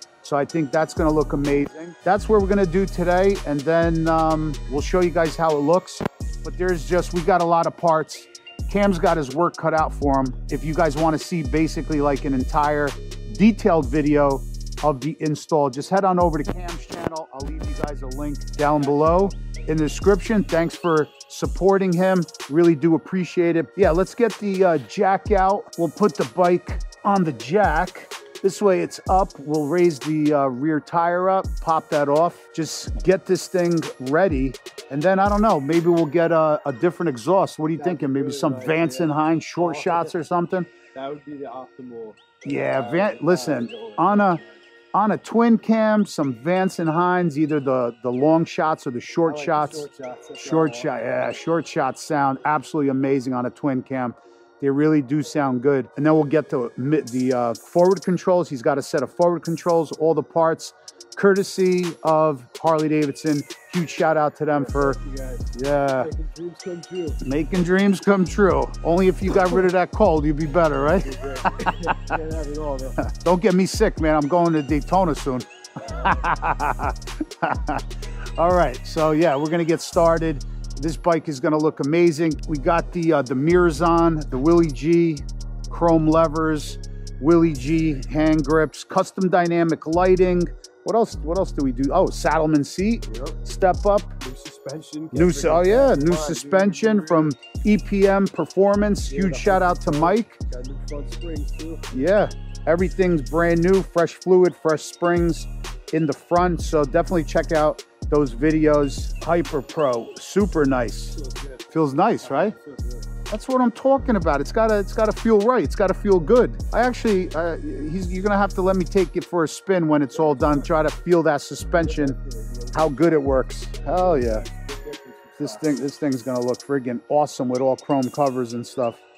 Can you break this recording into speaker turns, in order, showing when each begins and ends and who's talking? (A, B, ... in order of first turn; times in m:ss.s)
0:00.2-0:40.7 A
0:18.7-0:19.3 B
0:37.8-0:40.1 B
0:40.9-0:44.6 B
0:42.4-0:44.4 A
0:44.9-0:49.9 A
0:49.2-0:51.1 B
0:50.4-1:05.0 A
1:04.5-1:07.2 B
1:05.5-1:06.1 A
1:07.2-1:12.0 A
1:10.8-1:13.0 B
1:13.0-1:17.8 A
1:15.8-1:16.3 B
1:18.4-1:34.1 A
1:33.1-1:33.4 B
1:34.2-1:37.3 B
1:35.1-1:40.4 A
1:39.1-1:41.9 B
1:41.9-1:51.2 A
1:51.1-1:53.1 B
1:51.7-1:52.5 A
1:53.3-2:02.2 A
2:00.1-2:00.7 B
2:01.8-2:05.8 B
2:02.7-2:04.4 A
2:05.4-2:09.0 A